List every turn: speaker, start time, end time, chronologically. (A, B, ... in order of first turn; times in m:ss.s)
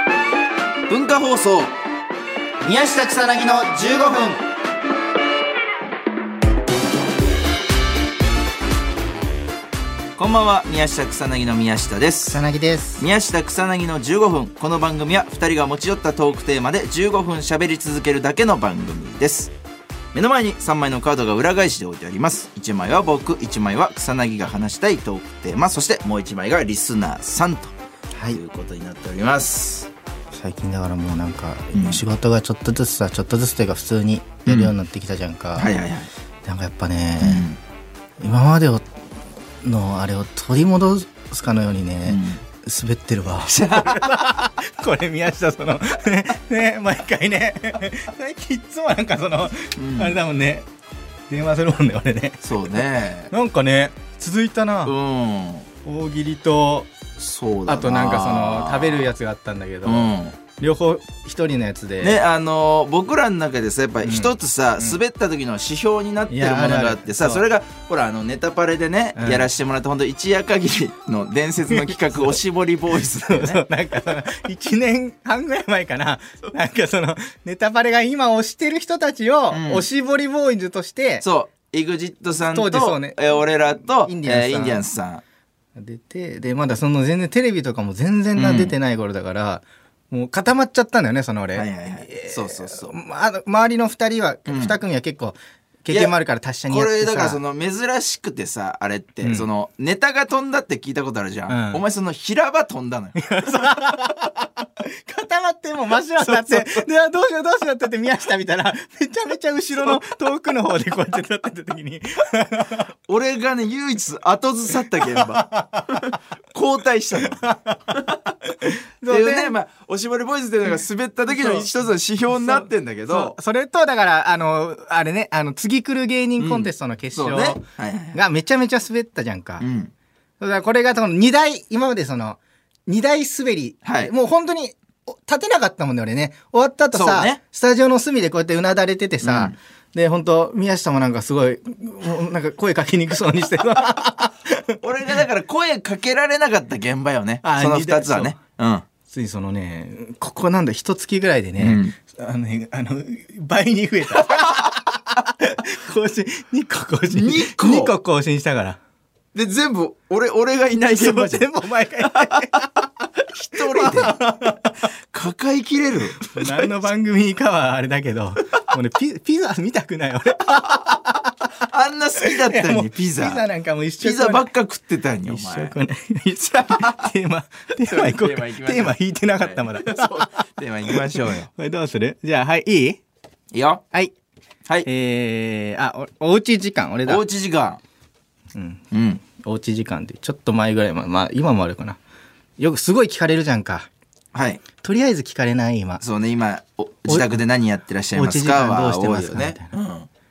0:00.9-0:01.8 A
0:02.6-0:04.4 B
0:10.2-0:12.4 A
0:12.3-0:13.0 B
0:13.0-0:19.5 A
0:20.1-0:27.7 A
0:28.1-0:28.4 B
0:28.3-0:29.9 A
0:30.3-0:35.7 B
0:31.7-0:32.0 A
0:34.5-0:34.7 A
0:35.6-0:36.1 A
0:36.4-0:37.5 B
0:37.2-0:37.6 A
0:38.2-0:38.8 B
0:39.6-0:50.7 B
0:42.1-0:42.4 A
0:43.4-0:44.5 A
0:49.8-0:50.2 A
0:51.3-0:52.4 B
0:52.4-0:53.3 A
0:53.3-0:54.9 B
0:54.8-0:55.7 A
0:55.8-0:56.9 B
0:57.2-0:59.1 A
0:57.7-1:02.2 B
0:59.8-1:00.4 A
1:02.0-1:13.6 A
1:04.0-1:05.0 B
1:06.3-1:07.4 B
1:09.2-1:09.5 B
1:11.7-1:12.3 B
1:13.1-1:21.2 B
1:19.5-1:19.8 A
1:21.2-1:25.2 A
1:22.5-1:24.8 B
1:25.8-1:37.4 B
1:28.4-1:28.7 A
1:31.5-1:32.9 A
1:34.5-1:34.8 A
1:36.7-1:43.4 A
1:41.5-1:41.8 B
1:43.2-1:52.9 B
1:46.2-1:46.8 A
1:49.7-1:50.0 A
1:53.1-1:58.1 A
1:54.9-1:56.0 B
1:57.2-1:57.8 B
1:58.6-1:59.5 B
1:59.0-2:03.4 A
2:01.3-2:01.7 B
2:02.3-2:09.6 B
2:06.4-2:08.2 A
2:09.6-2:09.9 A
2:10.4-2:24.6 B
2:13.8-2:14.1 A
2:16.9-2:17.4 A
2:19.2-2:19.5 A
2:24.8-2:28.8 A
2:27.4-2:28.4 B
2:29.1-2:38.8 B
2:31.6-2:31.9 A
2:37.1-2:37.9 A
2:39.3-2:41.5 A
2:41.0-2:42.7 B
2:42.0-2:42.8 A
2:43.3-2:44.2 A
2:43.5-2:44.8 B
2:45.1-2:46.8 A
2:46.2-2:51.5 B
2:51.6-2:53.4 A
2:52.2-2:54.5 B
2:54.0-2:55.7 A
2:55.2-3:00.4 B
2:56.6-2:57.1 A
2:57.8-3:01.5 A
3:00.9-3:03.0 B
3:03.5-3:03.8 A
3:04.8-3:07.2 B
3:07.0-3:07.8 A
3:08.5-3:08.8 B
3:08.9-3:09.2 A
3:09.4-3:12.0 B
3:12.6-3:13.9 B
3:14.3-3:14.6 A
3:14.8-3:16.0 B
3:16.0-3:20.1 A
3:18.1-3:19.7 B